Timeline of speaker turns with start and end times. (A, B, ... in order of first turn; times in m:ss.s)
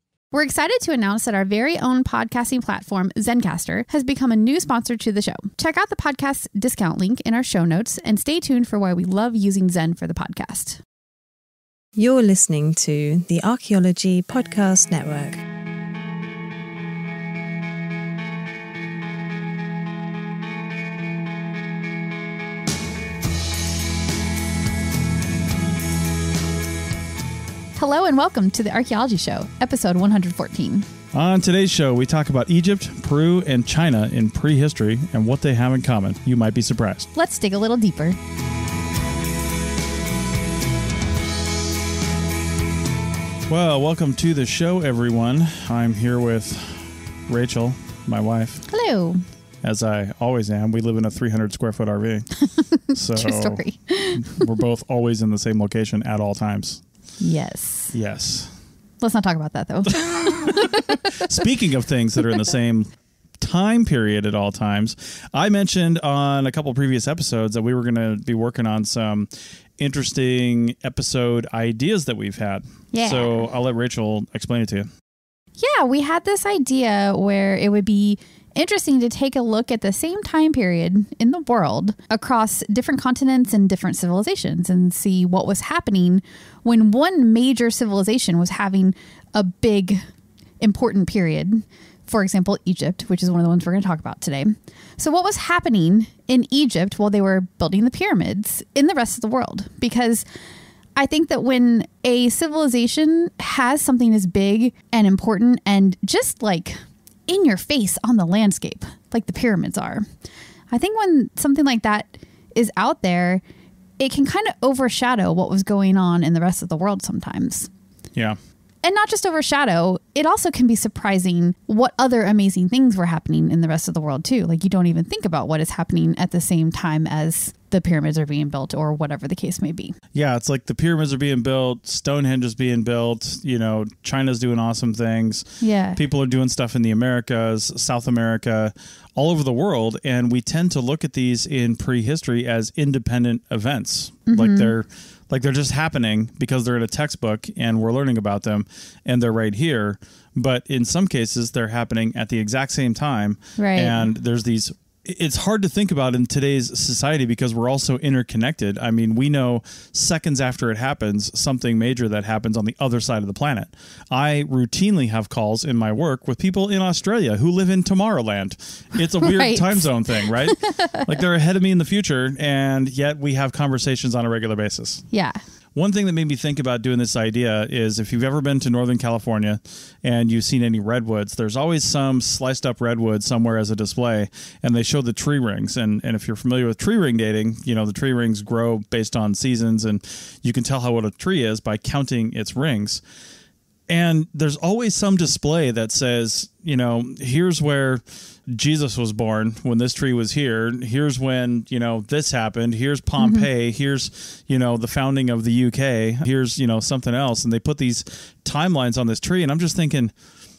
0:00.3-0:10.8 A
0:12.0-0:15.4 B
0:27.8-0:30.9 A
0:31.1-0:37.1 C
0:37.2-0:38.2 A
0:43.4-0:48.6 C
0:48.7-0:49.2 A
0:49.6-0:52.3 C
0:52.4-0:54.5 A
0:52.9-0:53.6 C
0:54.1-0:56.8 C
0:57.2-0:57.9 A
0:57.9-0:58.5 C
0:59.0-1:01.4 A
1:00.0-1:14.9 C
1:12.9-1:13.5 A
1:15.6-1:30.0 A
1:30.6-1:40.2 A
1:41.0-1:50.0 A
1:50.7-1:53.4 A
1:54.0-1:57.7 A
1:58.8-2:10.0 A
2:10.1-2:55.0 C
2:15.6-2:16.0 A
2:24.3-2:24.7 A
2:33.6-2:34.1 A
2:49.2-2:51.2 A
2:55.1-2:55.4 A
2:55.8-3:13.0 C
3:13.9-3:30.1 C
3:23.2-3:23.5 A